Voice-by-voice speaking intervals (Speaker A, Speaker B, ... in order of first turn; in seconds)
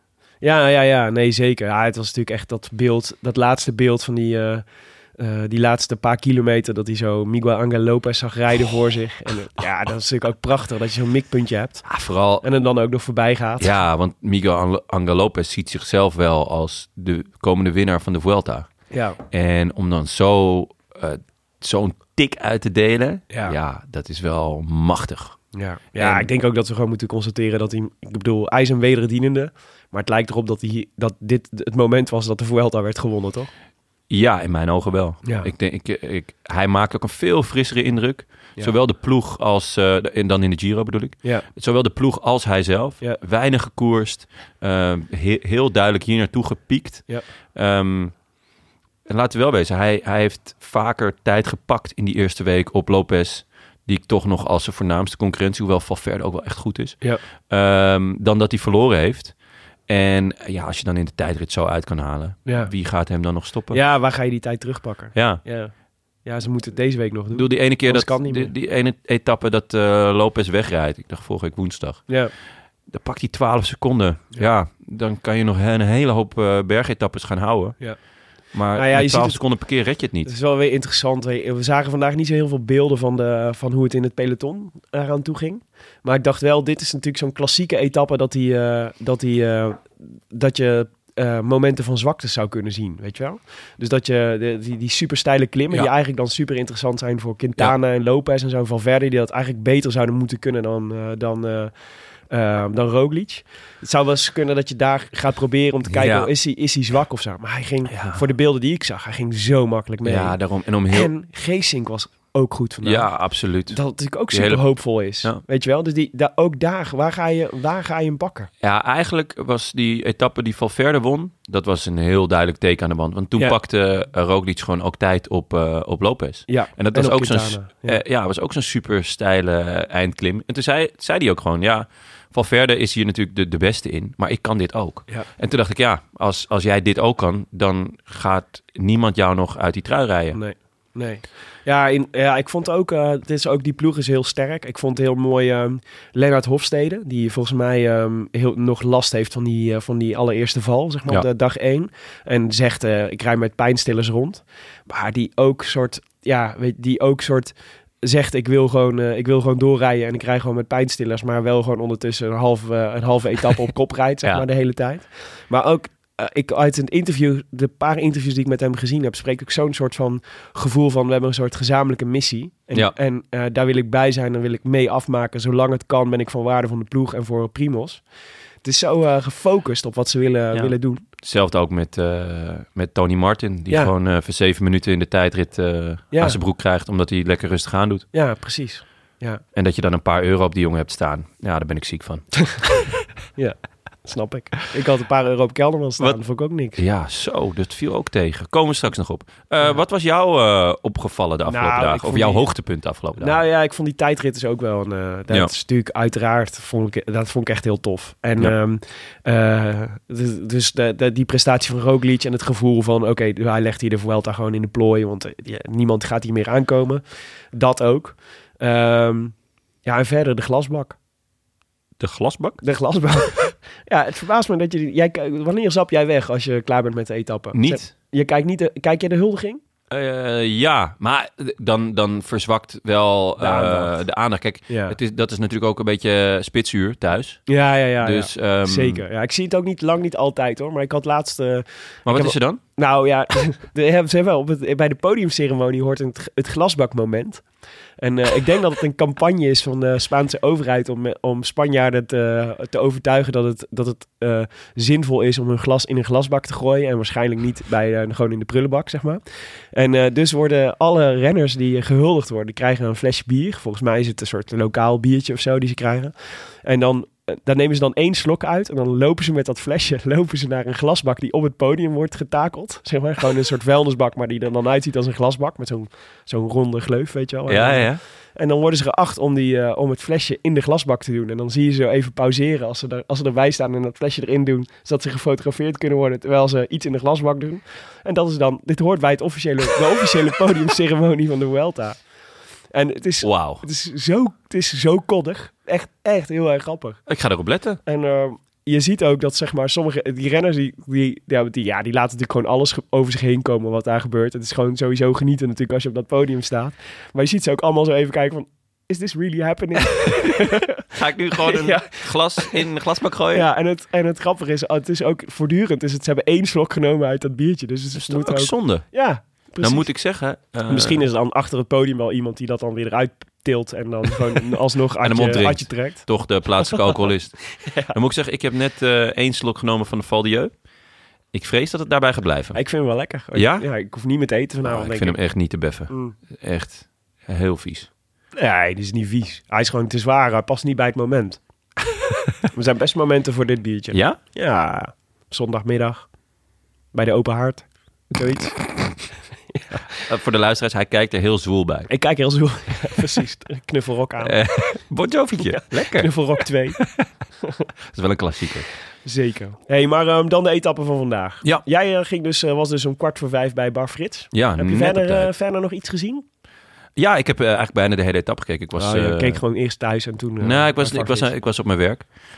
Speaker A: 0.4-4.6, 5.2-11.9, 12.4-13.7, 18.9-19.2, 25.5-33.5, 35.2-35.5, 62.5-62.7, 63.7-65.7, 66.2-68.5, 78.7-79.5, 80.2-101.7, 102.3-110.4, 110.9-118.5, 126.5-128.0, 140.3-178.0, 178.6-181.0, 186.1-186.4, 188.1-189.4, 193.4-196.8, 201.5-202.5, 203.2-217.0, 217.5-219.3, 219.8-221.0, 222.6-229.6, 233.4-234.0, 234.7-235.0, 237.5-247.4, 248.0-259.2, 259.7-266.1, 266.6-292.0, 292.7-297.0, 297.9-310.8, 311.4-312.6, 313.3-320.0, 320.7-326.1, 326.7-327.0, 327.6-327.9, 332.5-335.2, 335.9-336.2, 338.4-341.4, 342.5-346.1, 346.9-348.6, 349.5-349.8, 351.9-354.4, 355.4-356.8, 359.1-366.2, 368.8-371.3
Speaker B: 11.8-12.4, 13.6-18.7, 19.3-25.4, 25.9-26.3, 34.1-48.1, 49.1-59.3, 59.9-63.8, 65.1-65.4, 67.3-72.2, 72.9-77.8, 78.5-80.3, 105.9-106.3, 107.9-108.2, 110.0-111.1, 112.8-115.4, 118.6-140.4, 180.5-188.1, 189.5-192.5, 196.8-203.4, 222.0-222.6, 227.5-227.9, 229.9-239.0, 242.1-242.6, 277.5-278.0, 293.2-293.6, 297.1-297.8, 309.9-313.5, 317.9-318.9, 319.6-321.0, 325.0-330.5, 331.3-332.6, 333.3-333.7, 334.7-337.9, 343.9-344.2, 350.0-351.9, 354.2-356.2, 357.9-358.7, 364.3-365.3, 367.0-369.4, 370.4-372.1